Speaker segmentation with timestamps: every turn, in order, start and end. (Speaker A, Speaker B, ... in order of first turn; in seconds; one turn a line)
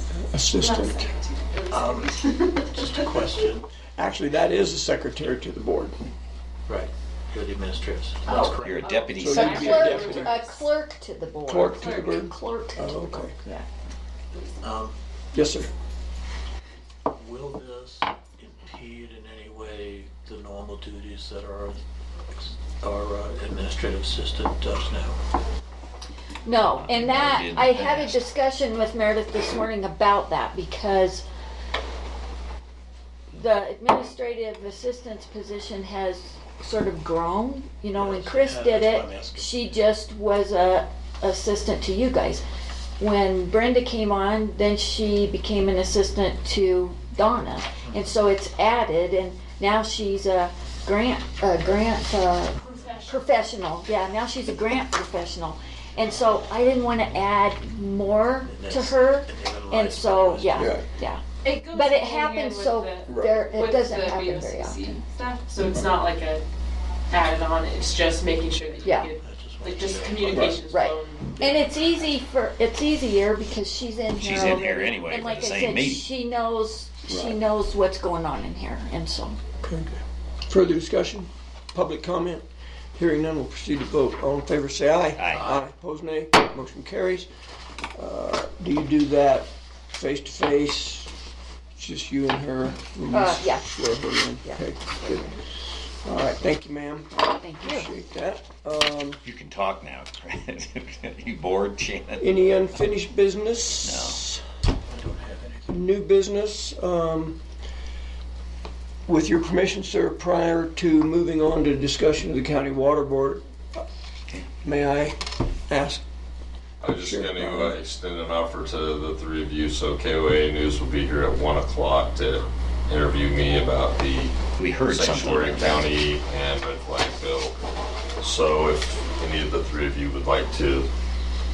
Speaker A: 0.1-1.1
Speaker B: 0.6-3.2
Speaker C: 1.7-3.7
Speaker A: 4.0-6.0
Speaker C: 6.7-9.2
Speaker D: 8.3-13.7
Speaker E: 8.6-10.1
Speaker A: 9.2-10.5
Speaker B: 9.2-10.5
Speaker A: 11.5-13.3
Speaker C: 14.6-15.0
Speaker A: 15.3-15.7
Speaker C: 17.1-21.8
Speaker C: 22.3-25.2
Speaker D: 26.5-31.2
Speaker E: 26.8-28.2
Speaker D: 33.4-42.4
Speaker C: 38.0-39.5
Speaker D: 43.0-65.0
Speaker C: 47.8-48.1
Speaker B: 52.7-53.1
Speaker C: 58.5-60.8
Speaker A: 60.6-60.8
Speaker B: 61.4-66.4
Speaker A: 63.1-63.4
Speaker B: 67.1-71.7
Speaker D: 68.8-69.1
Speaker C: 69.2-70.6
Speaker A: 70.3-70.6
Speaker D: 70.6-79.4
Speaker E: 74.2-76.0
Speaker A: 77.1-77.4
Speaker A: 80.5-82.4
Speaker A: 83.0-87.3
Speaker E: 85.2-85.5
Speaker A: 88.0-91.1
Speaker A: 91.8-95.3
Speaker D: 93.1-93.7
Speaker D: 94.4-95.3
Speaker A: 96.0-99.2
Speaker D: 97.4-97.9
Speaker E: 99.2-102.4
Speaker A: 102.2-104.5
Speaker E: 103.8-104.2
Speaker C: 104.9-105.7
Speaker A: 105.7-107.4
Speaker A: 109.1-113.8
Speaker A: 114.6-116.0
Speaker F: 116.8-127.5
Speaker A: 116.8-117.8
Speaker E: 124.6-125.9
Speaker F: 128.2-130.9